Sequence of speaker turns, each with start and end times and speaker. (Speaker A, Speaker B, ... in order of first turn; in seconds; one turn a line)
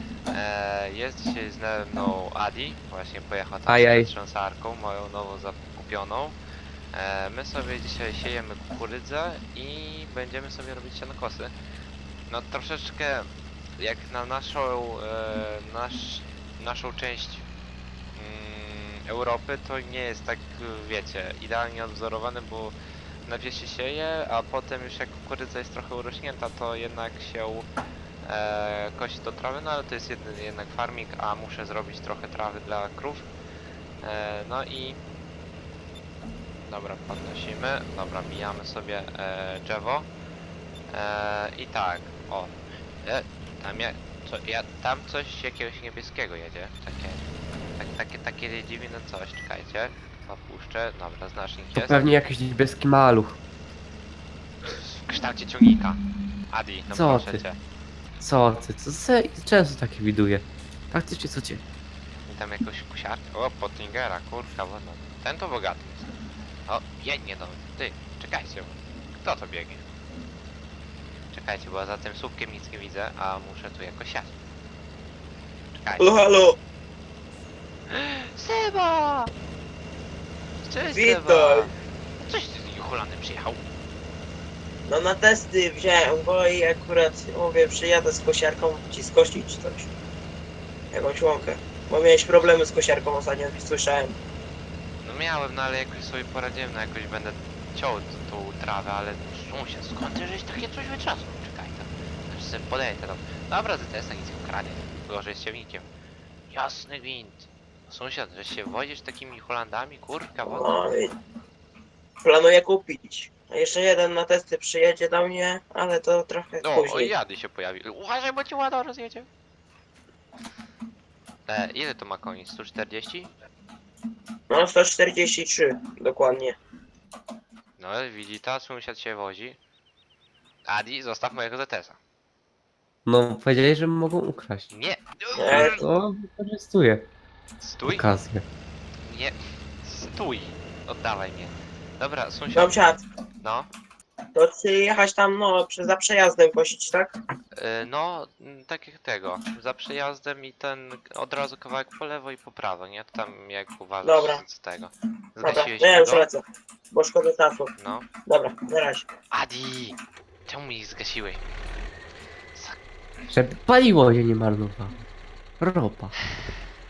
Speaker A: 0.3-6.4
Speaker B: 3.7-4.1
Speaker A: 6.9-11.5
Speaker A: 12.3-13.3
Speaker A: 13.8-17.4
Speaker A: 18.1-22.7
Speaker A: 23.2-27.7
Speaker A: 28.2-33.3
Speaker A: 34.0-35.0
Speaker A: 36.7-40.1
Speaker A: 40.9-47.2
Speaker A: 47.8-52.1
Speaker B: 51.8-53.4
Speaker A: 54.6-56.0
Speaker A: 56.5-57.6
Speaker B: 56.9-57.4
Speaker B: 58.2-61.6
Speaker A: 62.3-66.1
Speaker A: 66.7-69.8
Speaker A: 71.3-74.3
Speaker A: 75.7-76.2
Speaker C: 76.0-76.6
Speaker A: 77.9-79.3
Speaker A: 80.6-81.7
Speaker C: 80.9-81.7
Speaker A: 82.3-83.6
Speaker C: 84.9-89.9
Speaker C: 90.9-94.2
Speaker A: 95.0-105.9
Speaker A: 106.5-110.8
Speaker C: 110.5-111.1
Speaker C: 112.2-117.1
Speaker A: 116.6-119.3
Speaker A: 121.5-123.3
Speaker C: 124.5-126.6
Speaker A: 127.8-129.6
Speaker A: 130.6-132.0
Speaker B: 133.0-134.7
Speaker A: 134.7-135.8
Speaker C: 135.3-135.8
Speaker B: 135.5-137.1
Speaker A: 137.6-138.1
Speaker B: 137.9-138.4
Speaker A: 139.0-142.8
Speaker C: 142.5-143.0
Speaker A: 143.4-143.7
Speaker C: 144.3-147.2
Speaker A: 147.6-156.3
Speaker C: 154.0-154.4
Speaker C: 155.4-157.7
Speaker A: 157.8-158.1
Speaker C: 158.2-159.1
Speaker A: 159.3-159.9
Speaker A: 160.5-161.4
Speaker A: 162.5-162.8
Speaker B: 163.3-164.9
Speaker B: 165.6-166.1